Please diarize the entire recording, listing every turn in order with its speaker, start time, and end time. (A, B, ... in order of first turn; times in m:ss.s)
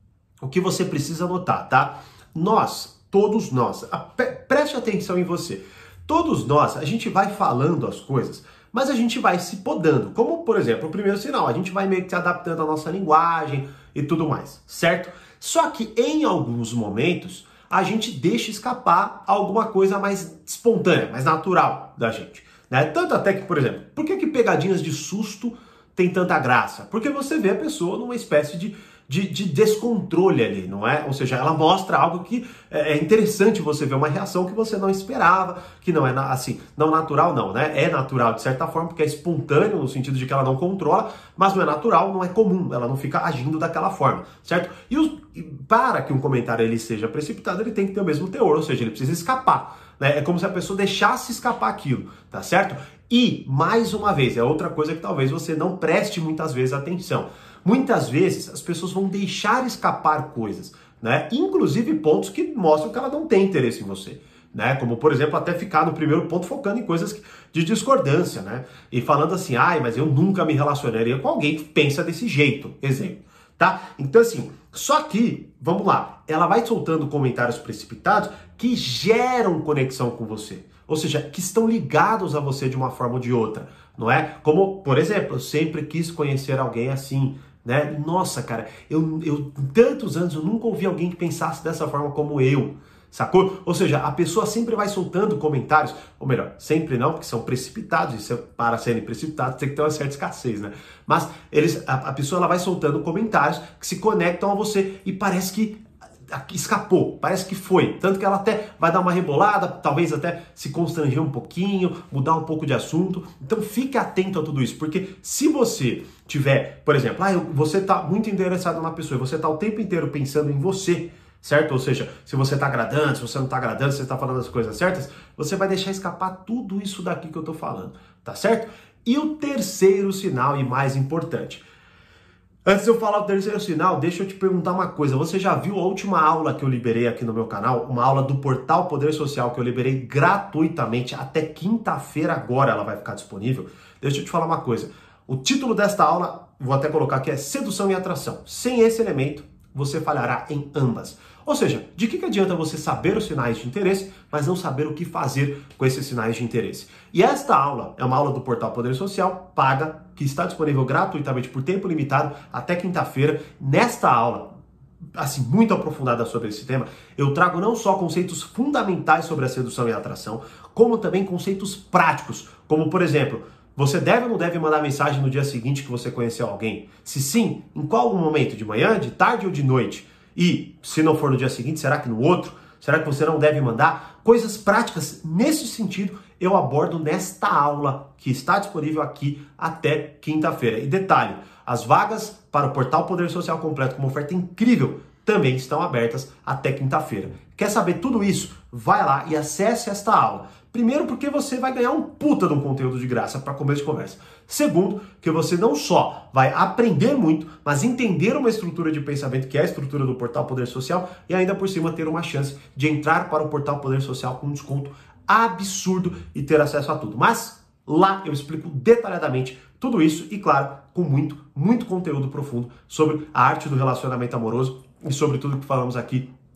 0:00.4-2:11.6 A
2:12.6-2:44.5 A
2:45.2-3:46.3 A